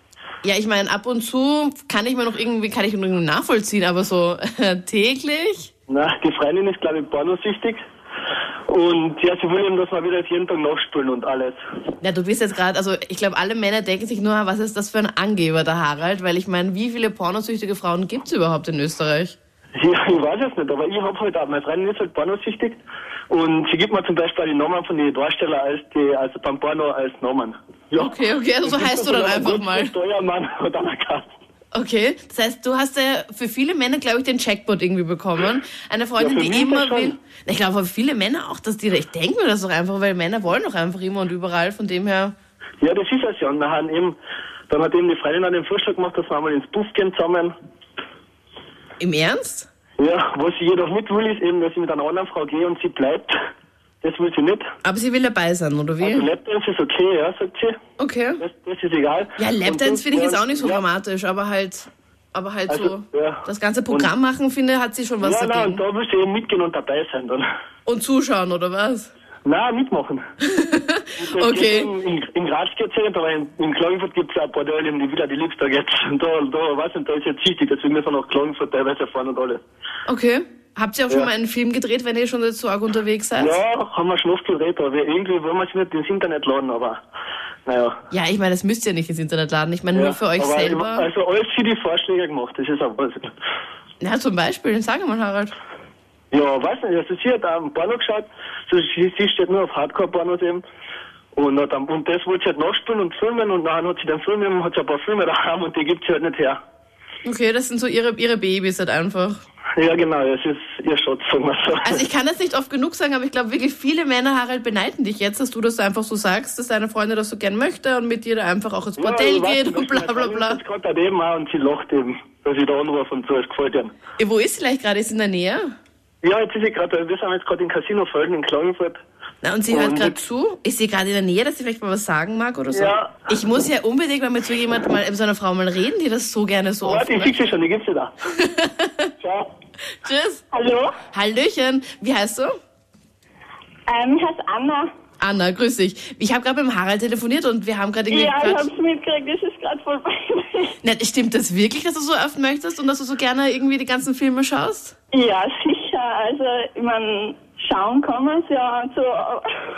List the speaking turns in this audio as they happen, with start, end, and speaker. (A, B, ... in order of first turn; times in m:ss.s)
0:00.4-0:05.7 A
0:05.9-0:07.8 B
0:08.7-0:11.6 B
0:12.0-0:19.4 A
0:19.8-0:22.8 B
0:23.3-0:31.3 B
0:27.9-0:30.0 A
0:31.7-0:42.4 A
0:36.2-0:37.2 B
0:42.8-0:44.2 B
0:44.7-0:47.5 B
0:49.0-0:49.7 A
0:50.0-0:53.3 B
0:54.0-0:54.6 B
0:54.8-0:56.3 A
0:56.0-0:57.8 B
0:58.0-0:58.4 A
0:58.4-1:00.8 B
0:59.4-1:05.9 A
1:02.7-1:04.1 B
1:05.2-1:07.4 B
1:07.9-1:09.1 A
1:09.4-1:10.2 B
1:10.4-1:11.9 A
1:11.2-1:19.6 B
1:20.1-1:23.6 A
1:23.4-1:27.0 B
1:27.7-1:28.0 B
1:28.1-1:31.1 A
1:29.9-1:33.3 B
1:34.0-1:35.5 A
1:36.3-1:40.6 B
1:41.3-1:46.6 B
1:47.2-1:49.4 A
1:49.8-1:52.0 B
1:51.8-2:00.6 A
1:59.0-2:04.0 B
2:04.2-2:05.7 A
2:06.2-2:09.0 B
2:09.4-2:17.5 A
2:09.7-2:10.2 B
2:12.7-2:13.1 B
2:16.8-2:18.1 B
2:18.4-2:19.1 A
2:19.2-2:19.5 B
2:20.0-2:20.4 A
2:20.5-2:20.9 C
2:21.1-2:22.5 A
2:23.9-2:24.8 C
2:25.2-2:28.7 A
2:28.2-2:30.7 C
2:30.8-2:35.0 A
2:35.2-2:39.4 C